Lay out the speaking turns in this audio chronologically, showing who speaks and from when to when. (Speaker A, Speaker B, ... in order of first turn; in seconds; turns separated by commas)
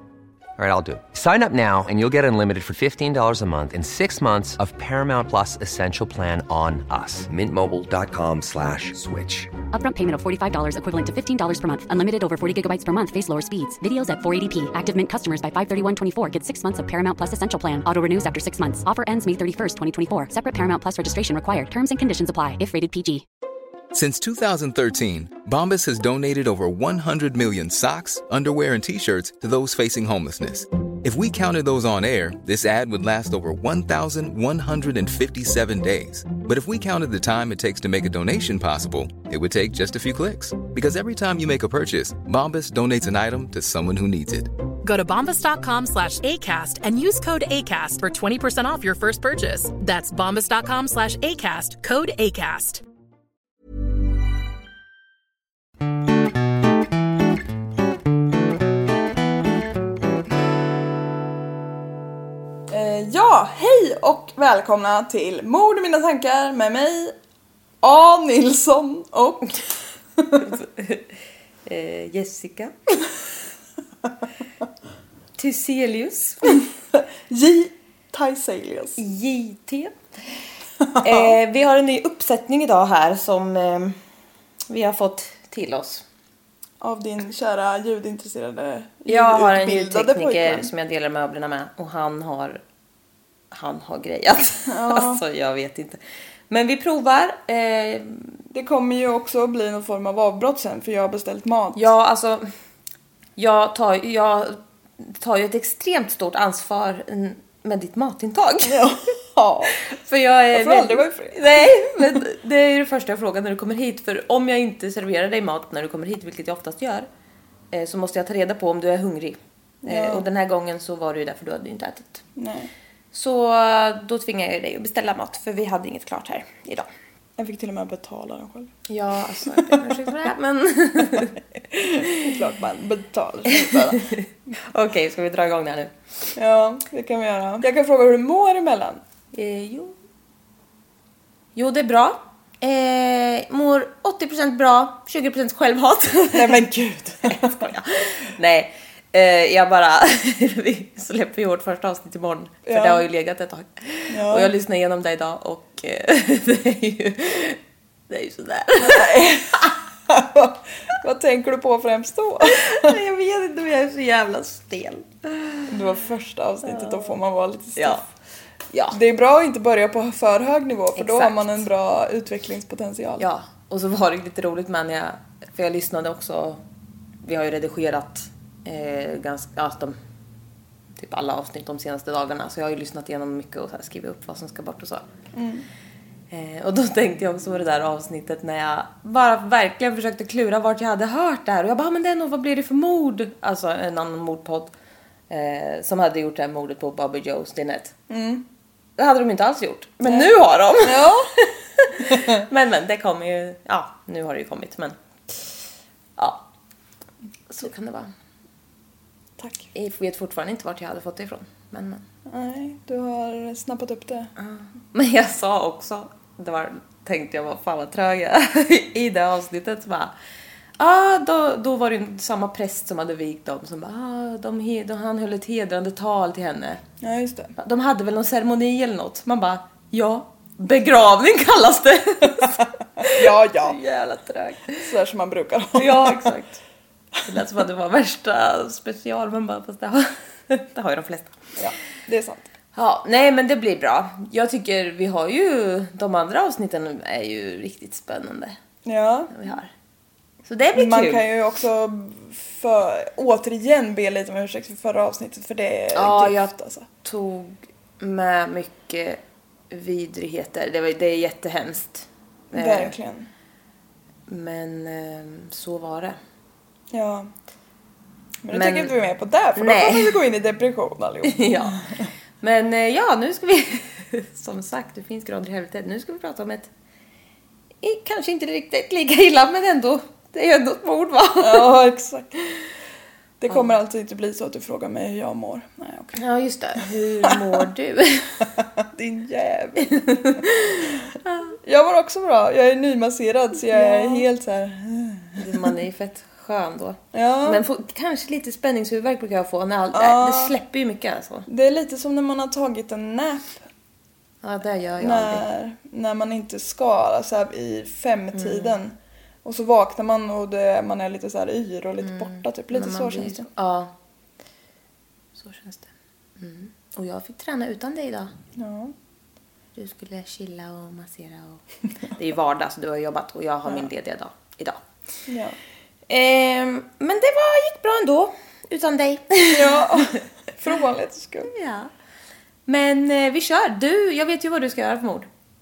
Speaker A: 0.6-9.6, Speaker B: 9.6-23.2, Speaker C: 23.9-44.5, Speaker D: 44.8-52.8, Speaker E: 62.7-67.2, Speaker E: 67.8-70.5, Speaker F: 70.4-71.1, Speaker F: 71.7-73.0, Speaker F: 75.4-76.6, Speaker E: 76.9-79.0, Speaker F: 79.0-80.0, Speaker E: 80.8-81.4, Speaker F: 81.0-84.0, Speaker F: 84.7-86.0, Speaker E: 86.8-90.7, Speaker F: 89.1-92.6, Speaker F: 93.5-98.4, Speaker E: 94.7-95.2, Speaker E: 98.5-101.9, Speaker F: 101.7-102.5, Speaker F: 103.4-108.9, Speaker E: 108.6-109.8, Speaker F: 109.8-117.1, Speaker E: 110.5-112.2, Speaker F: 117.7-122.2, Speaker E: 119.8-120.2, Speaker E: 122.3-122.7, Speaker F: 123.1-126.9, Speaker E: 127.4-128.7, Speaker F: 128.9-131.4, Speaker E: 129.5-129.9, Speaker E: 131.7-134.1, Speaker F: 133.6-135.9, Speaker E: 136.3-139.0, Speaker F: 139.3-139.9, Speaker F: 141.5-146.7, Speaker E: 146.3-147.7, Speaker F: 147.2-159.2, Speaker E: 152.7-153.0, Speaker E: 154.1-154.5, Speaker E: 158.8-162.9, Speaker F: 162.4-165.7, Speaker E: 165.7-168.1, Speaker F: 166.6-167.2, Speaker F: 167.8-168.0, Speaker F: 168.7-169.0, Speaker E: 168.9-173.3, Speaker F: 170.9-171.7, Speaker F: 173.2-176.6, Speaker F: 177.2-180.0, Speaker F: 180.9-185.0, Speaker E: 185.3-185.7, Speaker F: 186.3-194.7, Speaker F: 195.3-197.9, Speaker E: 198.1-198.4, Speaker F: 199.0-205.6, Speaker E: 200.8-201.3, Speaker E: 202.1-202.4, Speaker F: 206.2-206.5, Speaker F: 207.5-208.1, Speaker E: 209.4-209.7, Speaker F: 209.7-212.0, Speaker E: 212.2-214.3, Speaker F: 214.4-220.1, Speaker F: 220.8-226.8, Speaker E: 227.0-227.5, Speaker F: 227.6-234.9, Speaker E: 233.0-233.8, Speaker E: 234.8-236.3, Speaker F: 235.7-236.6, Speaker F: 237.2-241.4, Speaker E: 241.6-242.5, Speaker F: 242.7-248.6, Speaker E: 248.8-249.3, Speaker F: 249.3-249.7, Speaker F: 250.4-251.3, Speaker E: 250.7-256.9, Speaker F: 255.9-262.9, Speaker E: 262.5-263.3, Speaker F: 264.3-266.2, Speaker E: 266.9-267.3, Speaker E: 268.4-271.9, Speaker F: 268.5-268.9, Speaker F: 269.5-270.2, Speaker F: 271.2-271.8, Speaker F: 272.4-276.7, Speaker F: 277.8-281.7, Speaker E: 281.4-282.3, Speaker E: 283.4-286.2, Speaker F: 283.5-283.7, Speaker F: 286.1-288.5, Speaker E: 288.8-290.1, Speaker F: 289.9-291.6, Speaker E: 291.6-295.7, Speaker F: 293.7-294.2, Speaker F: 295.4-301.5, Speaker E: 297.1-297.6, Speaker E: 299.9-300.5, Speaker E: 301.5-303.6, Speaker F: 304.4-305.4, Speaker E: 305.0-313.5, Speaker F: 308.3-308.8, Speaker F: 312.0-313.9, Speaker F: 315.4-318.3, Speaker E: 318.6-318.9, Speaker F: 319.7-324.8, Speaker E: 325.3-325.6, Speaker F: 326.1-330.1, Speaker E: 329.5-331.5, Speaker F: 331.4-331.9, Speaker F: 332.6-335.3